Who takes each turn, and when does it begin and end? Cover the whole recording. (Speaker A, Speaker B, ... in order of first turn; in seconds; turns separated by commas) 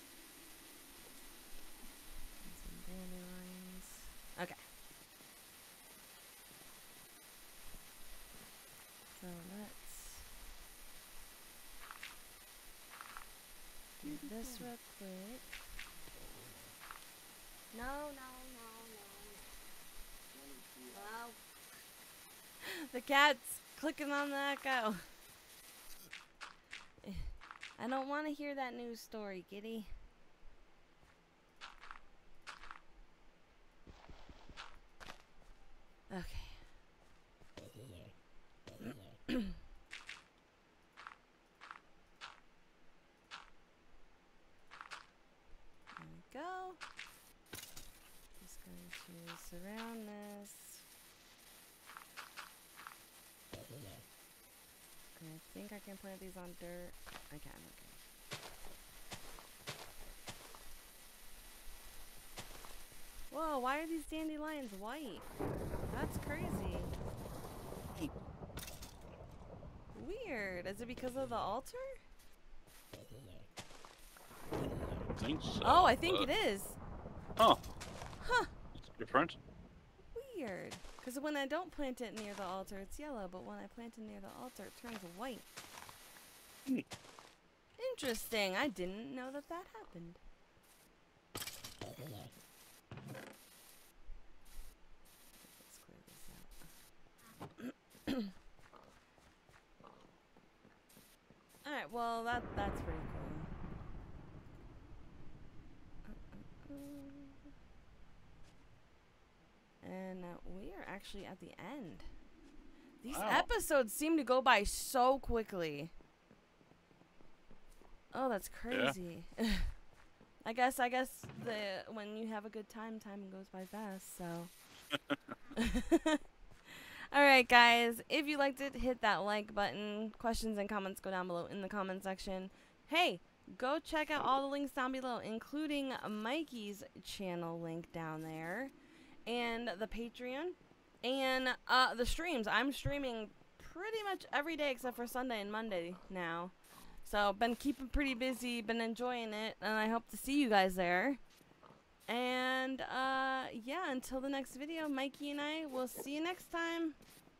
Speaker A: 2.4-4.7, Speaker A: 9.1-10.3, Speaker A: 14.0-15.6, Speaker A: 17.7-19.6, Speaker A: 20.9-21.4, Speaker A: 22.6-25.1, Speaker A: 27.0-29.9, Speaker A: 36.1-36.8, Speaker A: 45.9-46.8, Speaker A: 48.4-50.8, Speaker A: 55.1-58.1, Speaker A: 63.3-66.9, Speaker A: 69.9-72.0, Speaker B: 75.1-76.3, Speaker A: 75.6-76.8, Speaker A: 78.2-78.5, Speaker B: 78.8-79.4, Speaker A: 80.1-85.5, Speaker A: 87.8-90.2, Speaker A: 95.4-96.7, Speaker A: 97.6-98.3, Speaker A: 101.6-103.5, Speaker A: 106.0-107.5, Speaker A: 109.8-112.1, Speaker A: 113.0-115.9, Speaker B: 113.1-113.5, Speaker A: 118.1-119.8, Speaker B: 118.7-118.9, Speaker A: 120.4-124.5, Speaker A: 125.6-138.7, Speaker A: 139.2-151.2, Speaker A: 152.1-157.0